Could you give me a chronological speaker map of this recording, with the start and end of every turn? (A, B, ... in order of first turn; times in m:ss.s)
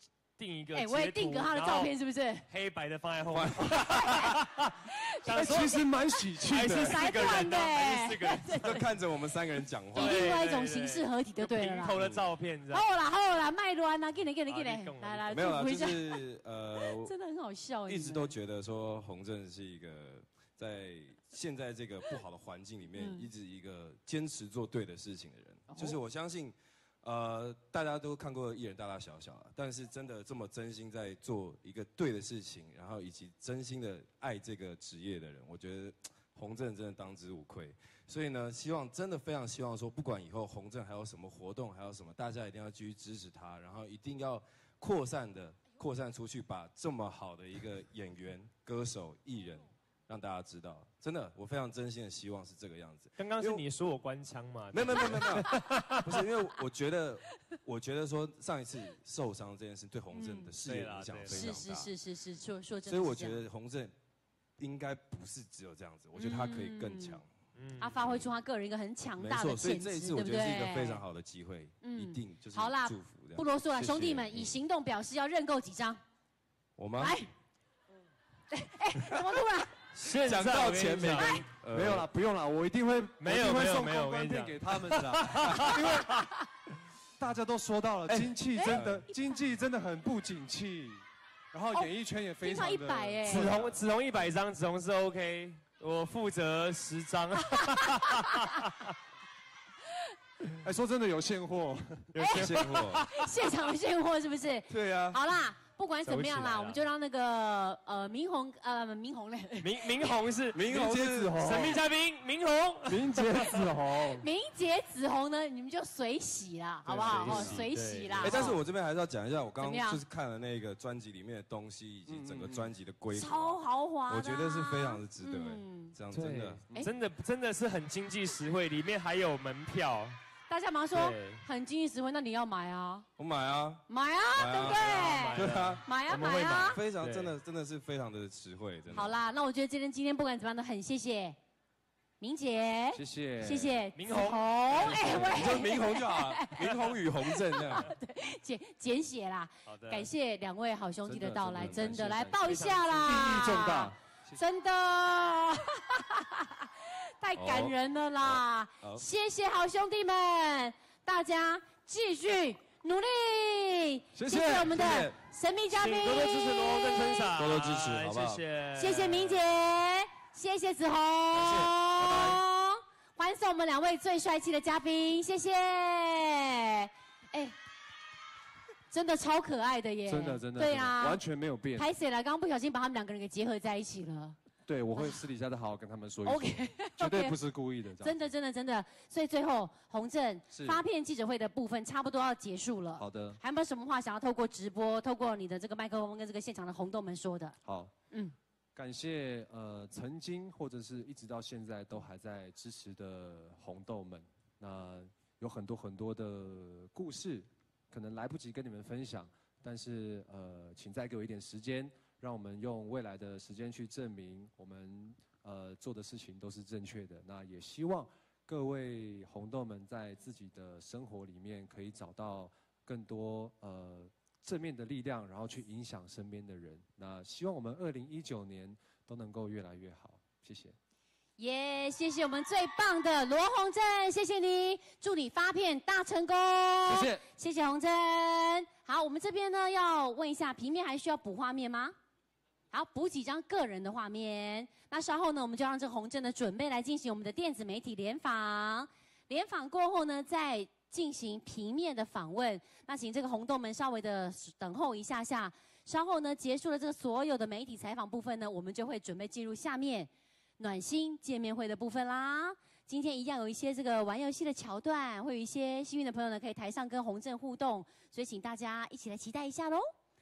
0:00.4-0:01.9 A
0:00.7-0:02.4 B
0:02.5-0:05.9 A
0:03.3-0:04.2 C
0:03.9-0:04.3 B
0:05.3-0:07.2 D
0:05.4-0:05.7 B
0:06.4-0:08.8 A
0:06.6-0:08.8 B
0:08.6-0:10.3 C
0:09.9-0:12.9 A
0:09.9-0:12.0 B
0:11.9-0:12.3 C
0:12.7-0:16.2 B
0:14.5-0:15.4 A
0:15.3-0:17.1 C
0:16.8-0:18.3 B
0:17.9-0:53.6 C
0:23.0-0:23.3 B
0:25.7-0:26.0 B
0:53.2-0:56.2 A
0:54.7-1:01.9 C
1:00.1-1:00.5 B
1:00.6-1:01.5 A
1:01.3-1:03.4 B
1:02.8-1:03.9 C
1:04.6-1:07.3 C
1:06.2-1:07.2 B
1:07.6-1:08.0 A
1:07.8-1:11.0 B
1:09.2-1:14.6 C
1:11.8-1:16.0 B
1:16.8-1:17.2 C
1:17.0-1:17.3 B
1:18.5-1:19.7 B
1:19.9-1:21.5 A
1:20.2-1:22.1 C
1:21.2-1:21.4 B
1:21.6-1:26.2 D
1:23.2-1:26.2 A
1:27.2-1:33.8 D
1:28.1-1:29.1 C
1:28.5-1:29.4 B
1:32.4-1:33.5 B
1:33.2-1:38.9 A
1:37.6-1:38.4 B
1:40.6-1:42.1 D
1:42.1-1:43.1 A
1:42.2-1:42.5 B
1:42.3-1:43.0 C
1:43.1-1:50.2 B
1:44.7-1:45.2 C
1:46.0-1:46.8 A
1:49.6-1:50.7 A
1:50.5-1:51.8 D
1:50.6-1:51.4 C
1:51.3-1:53.7 A
1:52.9-1:54.3 D
1:54.2-1:58.6 B
1:56.8-1:57.7 D
1:56.9-1:58.6 A
1:58.2-2:06.6 C
1:59.6-2:00.0 B
2:02.1-2:02.7 D
2:03.1-2:06.0 B
2:06.1-2:10.2 A
2:10.5-2:13.0 B
2:10.9-2:11.4 A
2:13.2-2:15.9 C
2:13.9-2:16.8 B
2:14.5-2:17.3 A
2:16.6-2:19.2 C
2:18.9-2:21.4 B
2:22.2-2:26.7 B
2:22.9-2:23.8 D
2:23.9-2:25.3 A
2:24.7-2:25.6 D
2:24.8-2:27.8 C
2:27.2-2:36.6 B
2:29.6-2:30.1 A
2:31.0-2:34.4 D
2:31.6-2:32.3 C
2:32.0-2:33.3 A
2:37.2-2:47.4 B
2:37.4-2:39.0 C
2:44.1-2:44.9 D
2:44.6-2:45.2 C
2:45.7-2:49.4 A
2:47.4-2:48.4 C
2:48.8-2:57.5 B
2:51.3-2:52.4 C
2:58.9-3:01.2 B
3:00.0-3:01.9 D
3:01.8-3:04.4 B
3:04.6-3:08.3 D
3:06.2-3:07.4 B
3:08.0-3:17.6 B
3:10.5-3:10.8 D
3:13.0-3:13.4 D
3:17.6-3:17.9 D
3:18.7-3:50.8 D
3:51.4-4:01.9 B
3:56.8-3:57.2 D
4:02.7-4:29.8 B